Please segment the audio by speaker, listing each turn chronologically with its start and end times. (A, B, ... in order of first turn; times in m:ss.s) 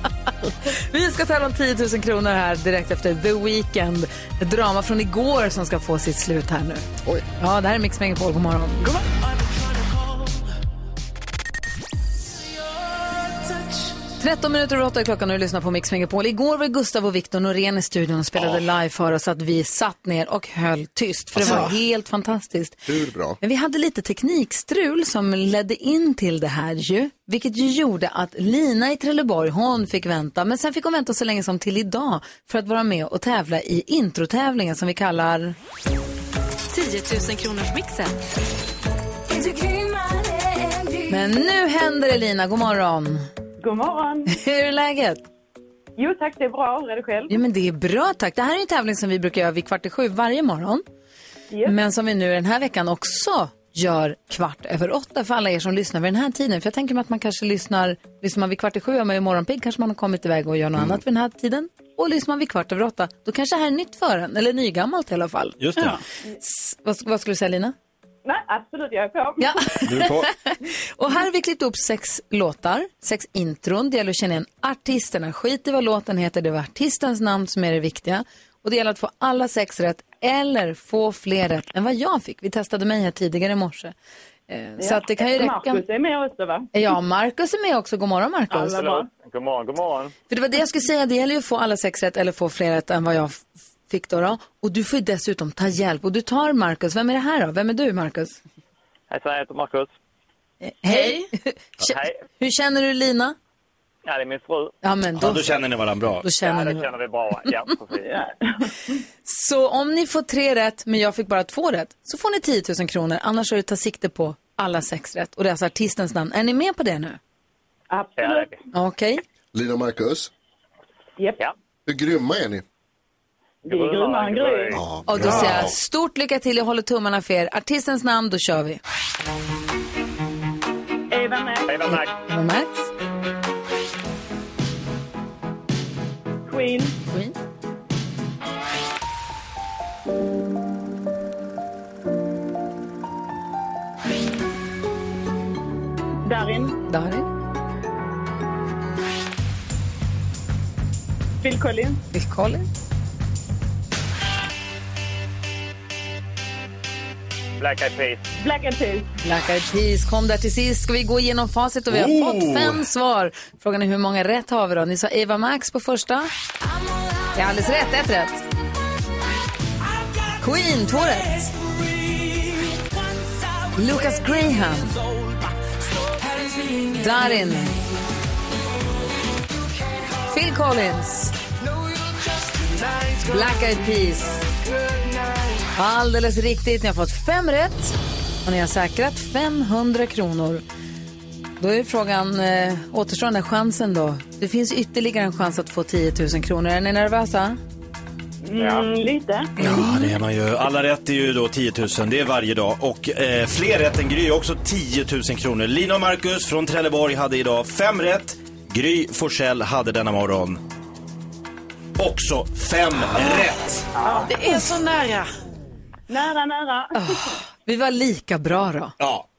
0:00.7-0:06.9 A
0:07.4-0:08.9 A
0:14.2-0:22.8 A
0:21.4-0:21.8 B
0:21.4-0:21.7 C
0:22.9-0:23.4 C
0:23.4-0:35.6 A
0:36.7-0:38.1 D
0:39.4-0:41.1 D
0:41.1-0:43.2 A
0:43.6-0:44.3 E
0:44.3-0:45.2 A
0:46.0-0:47.4 E
0:47.3-0:50.8 A
0:51.6-1:07.8 A
1:05.6-1:06.0 F
1:08.2-1:09.6 E
1:09.4-1:23.9 A
1:09.9-1:10.3 F
1:24.5-1:25.9 A
1:24.8-1:26.7 E
1:26.7-1:28.8 A
1:28.5-1:29.1 E
1:28.8-1:30.1 G
1:30.3-1:38.4 A
1:39.1-1:39.9 G
1:40.6-1:43.4 A
1:40.9-1:41.3 B
1:41.8-1:42.2 G
1:44.0-1:44.8 G
1:44.8-1:45.7 A
1:45.2-1:46.3 F
1:46.2-1:47.8 A
1:46.3-1:48.2 G
1:48.1-1:48.6 E
1:49.2-1:57.2 A
1:57.9-1:58.5 E
1:58.2-1:58.6 G
1:58.7-1:59.2 A
1:59.5-2:00.3 C
2:01.9-2:02.6 C
2:03.6-2:04.8 E
2:03.7-2:04.8 G
2:04.7-2:05.7 C
2:05.1-2:08.8 A
2:05.3-2:05.7 F
2:11.1-2:11.7 E
2:11.7-2:12.1 G
2:11.9-2:12.9 A
2:16.5-2:16.9 E
2:26.3-2:26.8 E
2:26.9-2:27.3 A
2:31.4-2:32.0 E
2:32.1-2:32.7 A
2:37.6-2:38.3 G
2:38.4-2:39.1 E
2:39.2-2:46.3 A
2:41.9-2:42.8 F
2:47.4-2:48.4 A
2:50.4-2:51.5 A
2:53.8-2:55.0 A
2:56.9-2:57.8 A
3:00.3-3:01.4 A
3:03.2-3:04.4 A
3:05.7-3:10.6 A
3:11.6-3:17.6 A
3:18.4-3:19.5 E
3:18.6-3:18.9 G
3:19.6-3:30.6 F
3:19.6-3:20.1 A
3:32.0-3:33.9 F
3:34.0-3:34.6 E
3:34.1-3:35.3 B
3:36.1-3:37.0 E
3:36.9-3:39.0 A
3:39.0-3:39.2 F